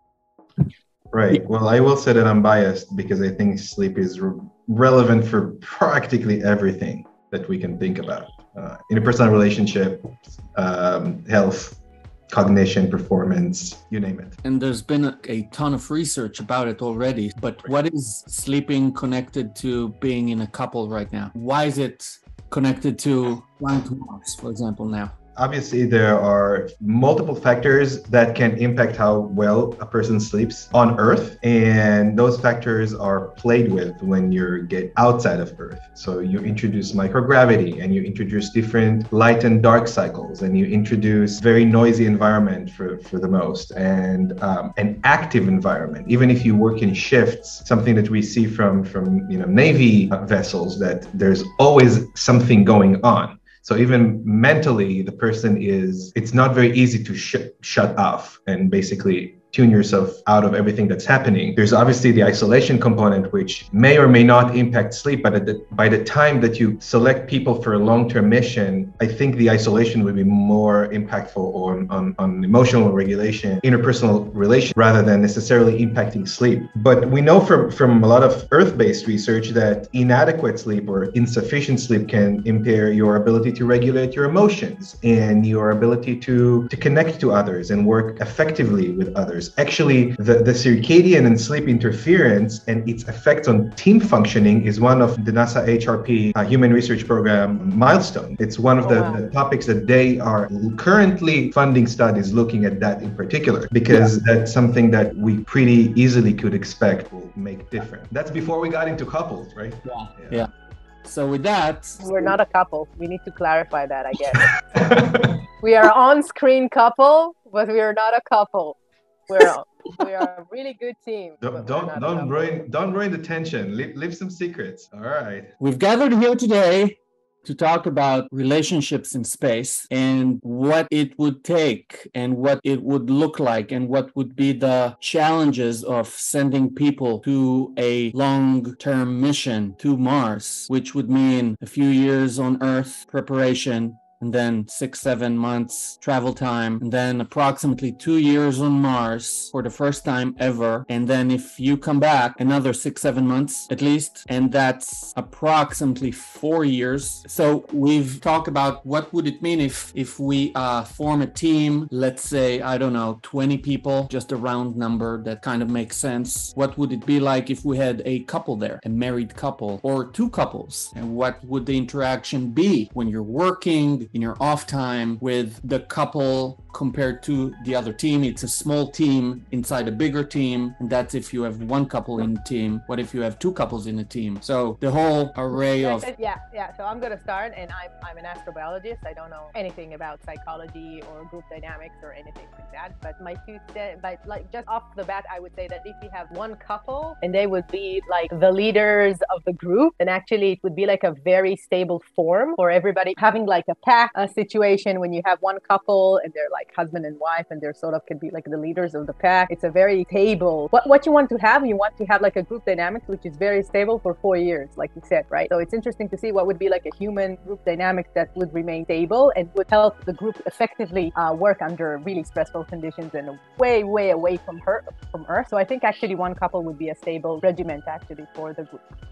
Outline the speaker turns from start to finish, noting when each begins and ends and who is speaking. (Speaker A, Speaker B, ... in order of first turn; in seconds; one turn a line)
Speaker A: 1.1-11.8
Speaker A: 12.3-14.4
Speaker B: 14.4-25.1
Speaker A: 25.4-110.5
Speaker C: 98.8-99.2
Speaker B: 109.8-110.5
Speaker B: 111.0-112.0
Speaker C: 112.0-114.6
Speaker A: 114.3-115.4
Speaker C: 115.6-118.8
Speaker C: 119.3-122.6
Speaker A: 121.4-125.6
Speaker B: 125.6-186.1
Speaker C: 185.5-228.8